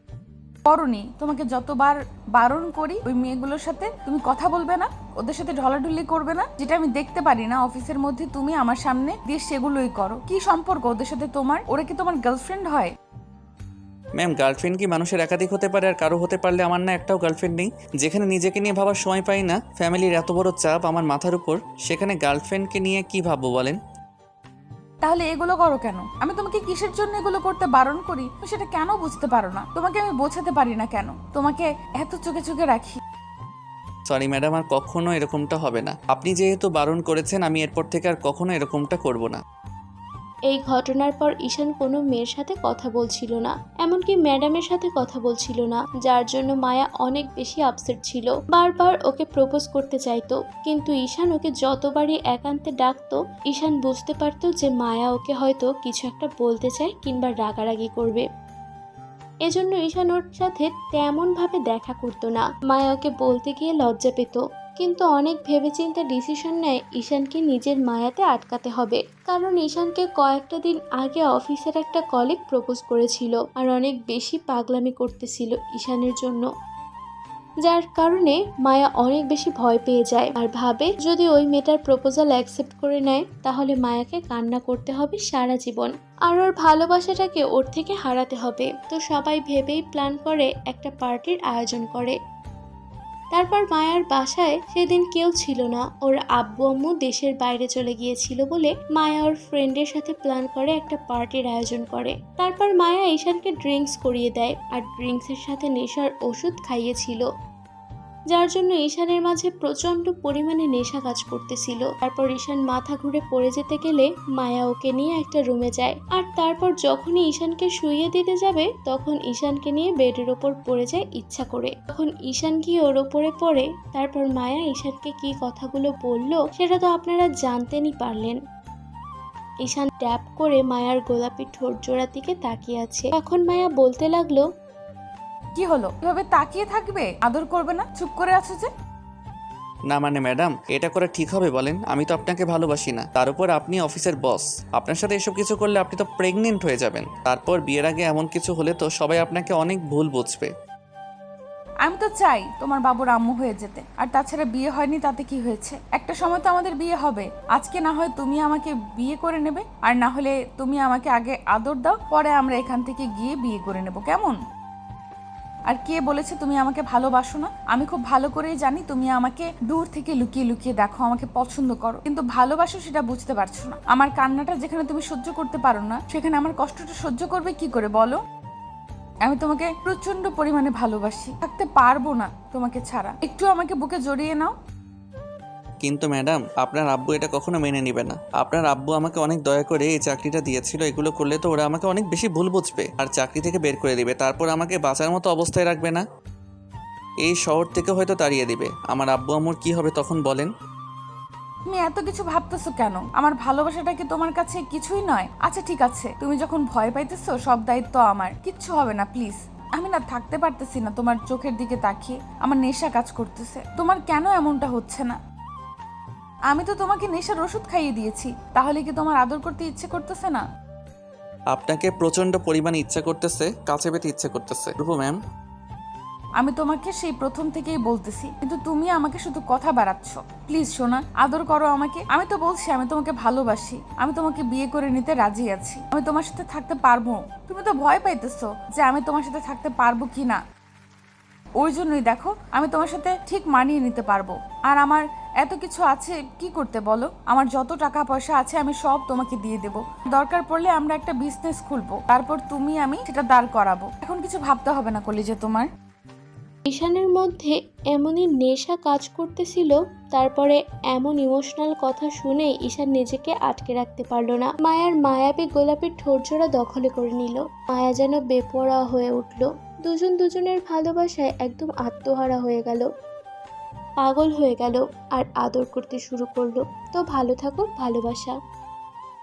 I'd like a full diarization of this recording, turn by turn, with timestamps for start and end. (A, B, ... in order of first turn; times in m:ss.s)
0:00.7-0:12.9 A
0:14.2-0:23.8 B
0:25.0-0:33.0 A
0:34.1-0:39.4 B
0:40.5-0:58.2 C
0:59.5-1:16.5 C
1:17.6-1:32.2 C
1:33.3-1:47.3 C
1:48.3-2:08.4 C
2:09.6-2:14.4 C
2:15.6-2:18.7 A
2:19.9-2:30.5 B
2:31.8-2:44.4 A
2:45.7-2:58.2 A
2:59.2-3:04.5 A
3:05.8-3:16.0 B
3:17.2-3:20.5 B
3:21.7-3:35.2 A
3:36.5-3:40.4 A
3:41.5-3:45.2 B
3:46.4-4:00.4 A
4:01.6-4:15.7 A
4:16.7-4:32.9 C
4:34.0-4:38.3 C